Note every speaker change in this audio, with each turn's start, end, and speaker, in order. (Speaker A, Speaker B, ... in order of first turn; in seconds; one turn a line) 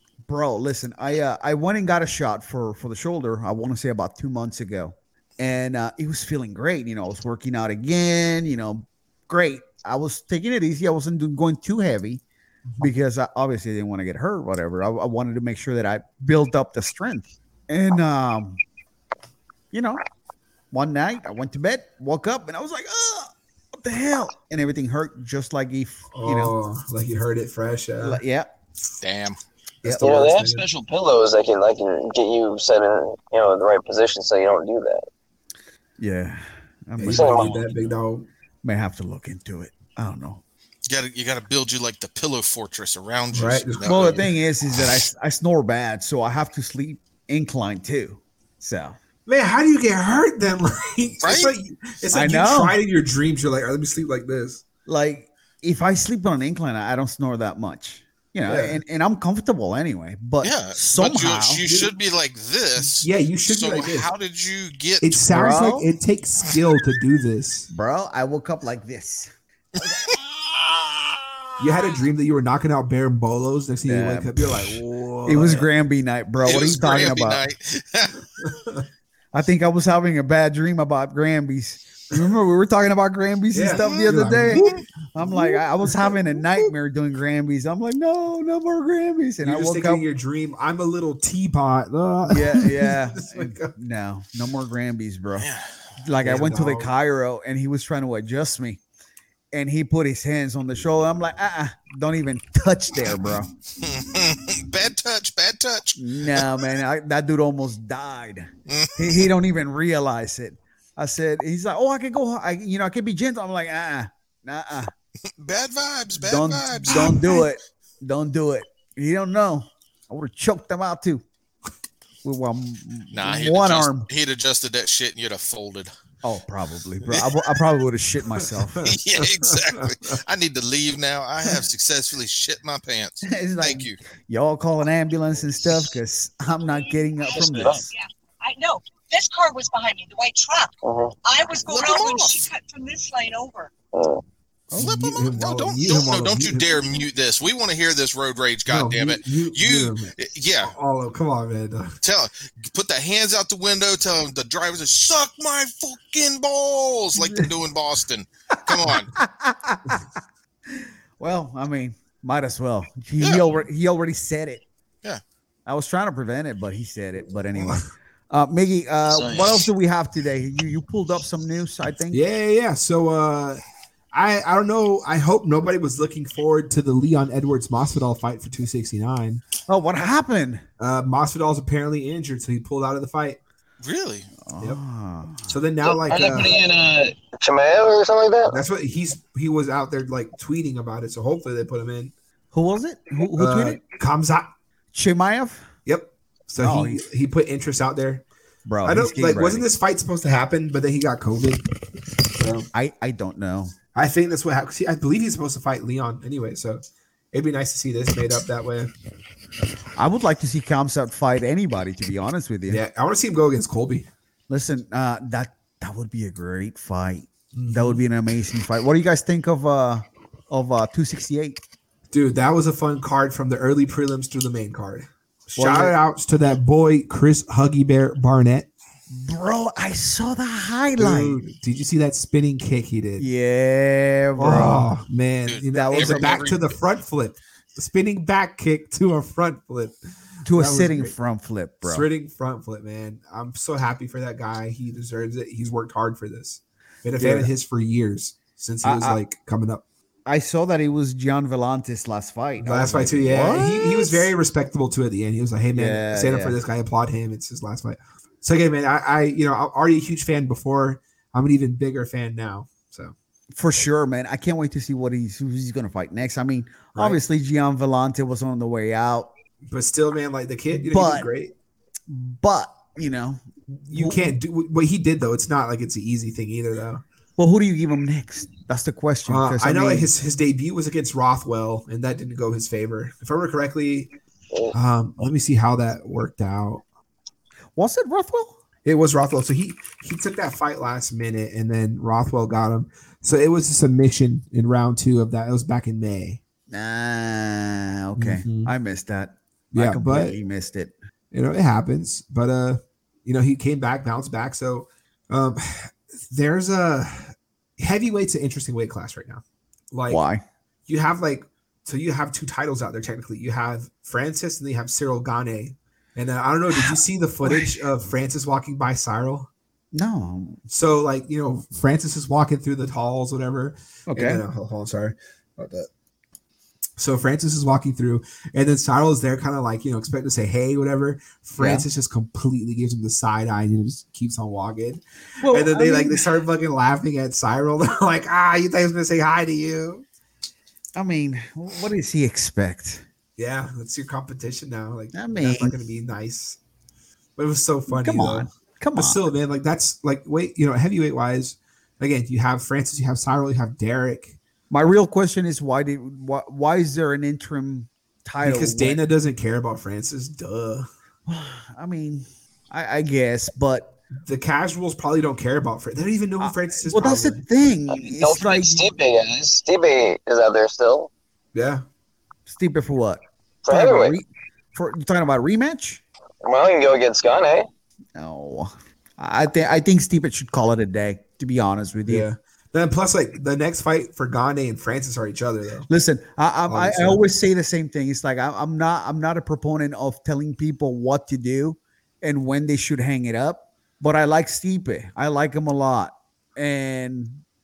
Speaker A: 0.3-12.2
Speaker B: 12.7-12.9
Speaker A: 12.8-18.6
Speaker A: 19.7-20.0
Speaker A: 20.7-26.5
Speaker B: 26.1-28.2
Speaker A: 28.0-28.5
Speaker C: 29.0-29.4
Speaker B: 29.8-30.6
Speaker D: 30.0-35.0
Speaker A: 36.0-37.9
Speaker B: 37.0-38.3
Speaker D: 37.0-37.6
Speaker A: 38.6-40.4
Speaker C: 40.9-44.3
Speaker B: 43.3-44.2
Speaker A: 43.8-49.0
Speaker B: 49.2-54.6
Speaker C: 51.2-51.5
Speaker A: 52.1-52.8
Speaker A: 54.9-61.6
Speaker B: 58.4-58.8
Speaker C: 60.4-65.2
Speaker B: 61.6-61.9
Speaker B: 62.8-64.1
Speaker B: 65.0-67.7
Speaker A: 65.3-65.9
Speaker A: 67.7-70.3
Speaker B: 71.6-75.7
Speaker A: 73.9-74.3
Speaker A: 75.2-77.4
Speaker C: 76.4-78.2
Speaker B: 78.4-78.8
Speaker A: 79.3-90.0
Speaker B: 83.5-86.7
Speaker C: 83.7-84.8
Speaker B: 89.4-93.7
Speaker A: 92.3-95.5
Speaker C: 95.4-95.7
Speaker A: 96.0-98.8
Speaker B: 96.2-96.9
Speaker A: 99.5-103.5
Speaker C: 103.8-106.5
Speaker A: 106.0-114.9
Speaker C: 108.7-109.3
Speaker C: 115.4-117.1
Speaker A: 116.2-121.2
Speaker B: 116.9-117.4
Speaker A: 122.2-124.1
Speaker C: 123.1-125.9
Speaker A: 126.2-128.9
Speaker B: 128.7-130.2
Speaker C: 128.8-134.0
Speaker A: 133.2-137.9
Speaker E: 137.2-140.7
Speaker D: 137.3-137.8
Speaker D: 140.8-141.1
Speaker E: 141.2-143.7
Speaker C: 141.7-142.4
Speaker D: 143.9-144.2
Speaker C: 144.7-150.7
Speaker B: 144.7-146.8
Speaker B: 148.7-151.9
Speaker C: 152.0-159.2
Speaker A: 158.9-160.0
Speaker A: 160.7-164.6
Speaker C: 163.2-163.4
Speaker A: 165.7-172.2
Speaker B: 167.5-167.8
Speaker D: 169.1-169.7
Speaker B: 172.1-179.4
Speaker A: 179.7-180.6
Speaker B: 180.8-183.4
Speaker C: 183.8-184.3
Speaker A: 184.4-185.5
Speaker B: 185.5-186.6
Speaker D: 185.8-188.6
Speaker B: 188.4-192.1
Speaker A: 192.5-193.8
Speaker B: 193.4-194.5
Speaker A: 194.9-195.7
Speaker B: 195.8-198.2
Speaker A: 196.6-197.0
Speaker A: 198.7-199.7
Speaker B: 198.8-201.6
Speaker B: 202.3-202.7
Speaker A: 202.7-203.7
Speaker B: 203.9-208.9
Speaker A: 209.9-212.8
Speaker B: 212.7-214.1
Speaker A: 214.5-221.6
Speaker B: 217.5-218.0
Speaker B: 222.1-228.7
Speaker A: 225.6-225.9
Speaker A: 229.1-231.4
Speaker B: 231.0-233.2
Speaker A: 233.2-234.9
Speaker B: 234.4-241.1
Speaker C: 235.4-236.6
Speaker A: 235.7-236.5
Speaker A: 240.4-242.1
Speaker B: 241.8-249.8
Speaker A: 247.2-247.5
Speaker A: 248.8-249.2
Speaker A: 250.2-254.3
Speaker B: 252.6-263.1
Speaker A: 255.7-256.6
Speaker A: 263.6-269.3
Speaker B: 266.9-267.2
Speaker B: 269.7-271.5
Speaker A: 270.9-271.3
Speaker A: 272.1-274.3
Speaker B: 273.9-277.0
Speaker A: 277.4-280.1
Speaker B: 279.3-284.1
Speaker B: 284.7-286.8
Speaker A: 287.8-288.6
Speaker B: 288.8-296.4
Speaker A: 296.7-300.9
Speaker B: 298.2-298.7
Speaker B: 299.7-300.4
Speaker B: 301.3-310.2
Speaker A: 310.1-310.4
Speaker B: 310.9-319.5
Speaker A: 316.7-317.8
Speaker A: 319.9-320.6
Speaker B: 320.7-325.9
Speaker A: 324.1-324.4
Speaker B: 327.0-340.0
Speaker A: 331.6-331.9
Speaker A: 335.4-336.3
Speaker A: 340.9-343.0
Speaker B: 343.4-346.6
Speaker A: 345.1-345.7
Speaker B: 347.4-354.4
Speaker A: 347.9-349.2
Speaker A: 354.7-359.0
Speaker B: 358.4-360.9
Speaker A: 361.3-363.9
Speaker B: 364.2-367.4
Speaker A: 366.4-368.9
Speaker D: 367.9-371.1
Speaker B: 371.5-371.8
Speaker A: 372.5-376.0
Speaker D: 373.6-374.2
Speaker D: 376.4-377.7
Speaker A: 378.1-382.3
Speaker B: 382.1-385.9
Speaker A: 385.9-397.4
Speaker B: 386.7-387.2